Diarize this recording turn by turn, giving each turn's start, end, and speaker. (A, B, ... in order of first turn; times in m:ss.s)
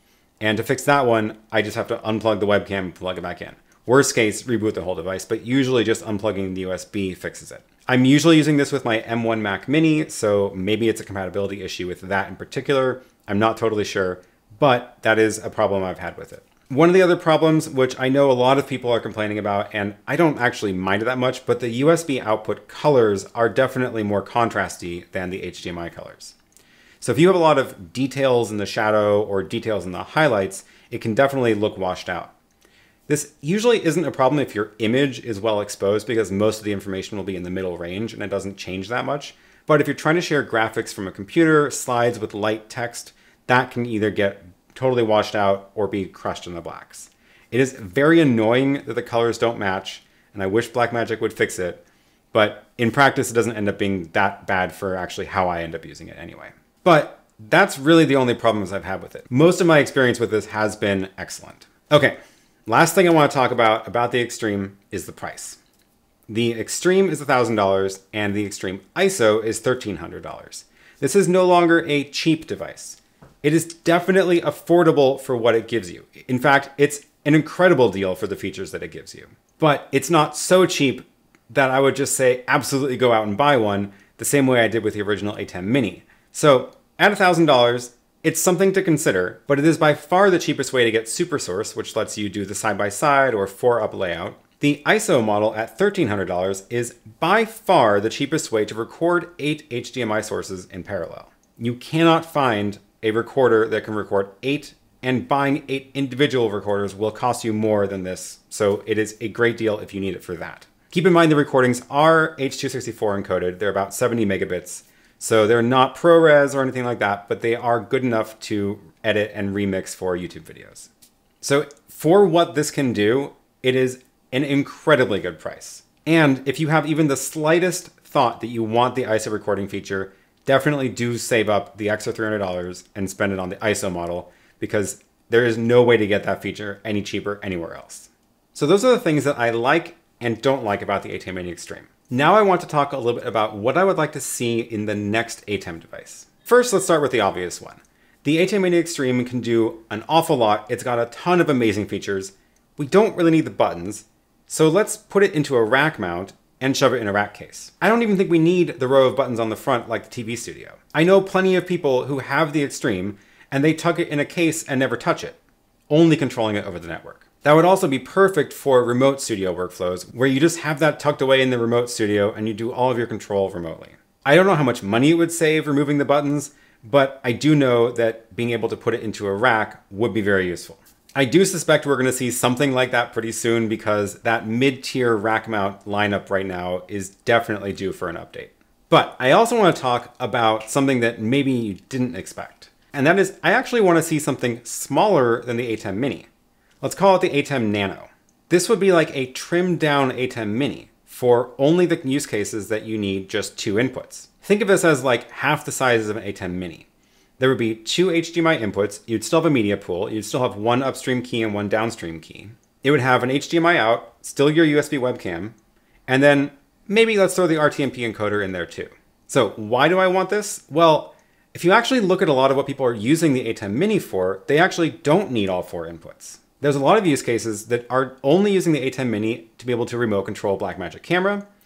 0:00.4-0:26.4 A
0:27.0-0:32.3 A
0:33.1-1:05.6 A
1:06.3-2:00.9 A
2:01.4-2:45.4 A
2:45.9-3:16.3 A
3:16.8-3:26.9 A
3:27.4-3:35.5 A
3:36.1-3:51.4 A